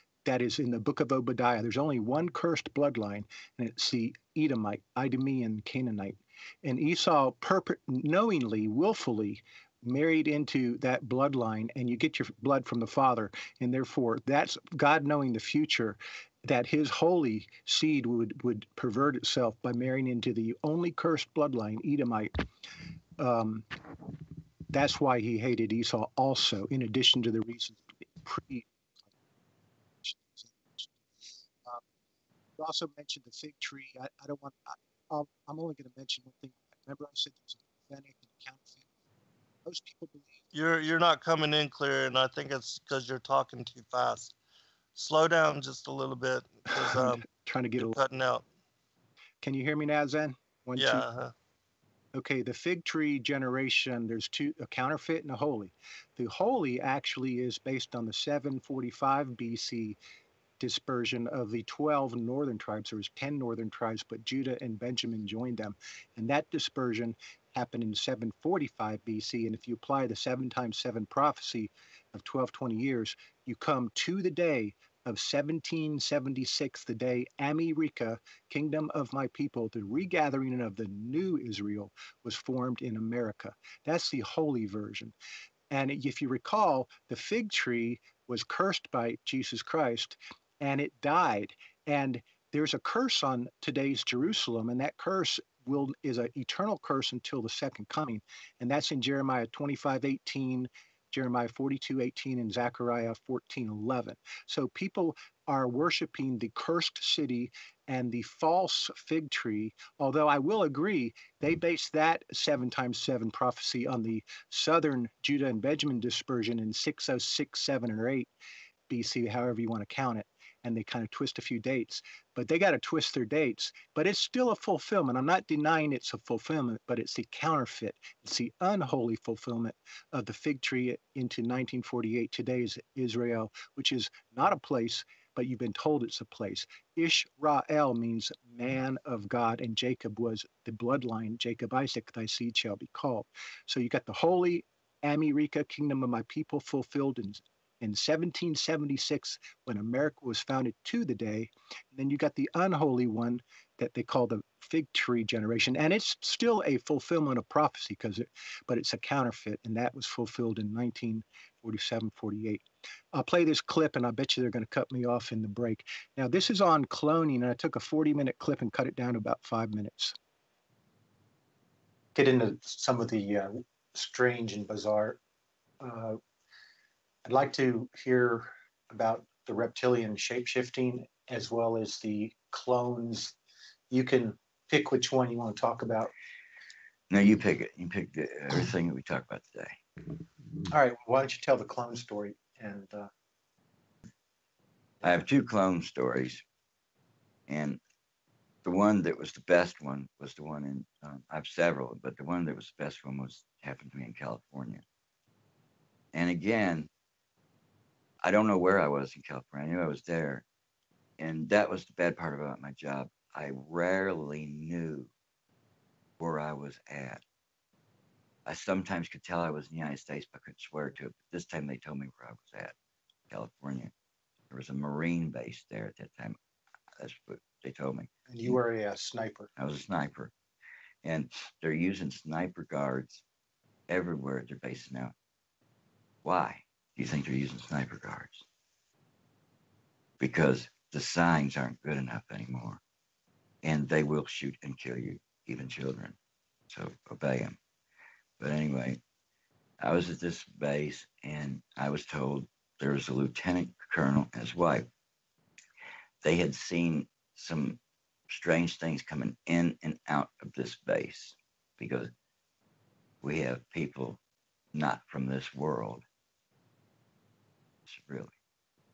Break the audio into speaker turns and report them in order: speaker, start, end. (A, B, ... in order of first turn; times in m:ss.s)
0:00.2-0:22.4 A
0:23.2-0:23.7 A
0:24.7-0:29.2 A
0:30.0-0:31.0 A
0:32.6-0:38.8 A
0:39.6-0:40.4 A
0:40.5-0:44.3 B
0:45.0-0:47.2 B
0:46.8-0:48.0 A
0:47.8-0:48.4 B
0:49.4-0:51.0 A
0:50.8-0:51.3 B
0:52.1-1:00.0 A
1:00.6-1:25.1 A
1:25.7-1:58.3 A
1:58.9-2:50.2 A
2:52.2-2:55.2 A
2:55.8-2:56.2 A
2:57.3-3:03.4 A
3:03.9-3:06.1 A
3:07.1-3:09.8 C
3:10.7-3:13.1 A
3:15.0-3:16.4 C
3:17.5-3:17.8 C
3:18.6-3:24.8 C
3:26.1-3:26.9 C
3:28.2-3:30.4 C
3:31.2-3:35.1 C
3:36.2-3:37.2 C
3:38.5-3:42.8 C
3:43.3-3:43.9 C
3:44.5-3:46.4 C
3:47.0-3:48.6 C
3:48.3-3:49.5 A
3:49.6-3:50.3 C
3:51.0-3:53.2 C
3:53.9-3:55.1 C
3:56.2-3:58.4 C
4:00.2-4:02.8 C
4:03.6-4:06.2 C
4:06.7-4:07.6 C
4:08.4-4:09.0 C
4:09.8-4:14.9 C
4:16.2-4:22.1 C
4:23.2-4:24.2 C
4:24.7-4:26.0 C
4:27.9-4:28.3 C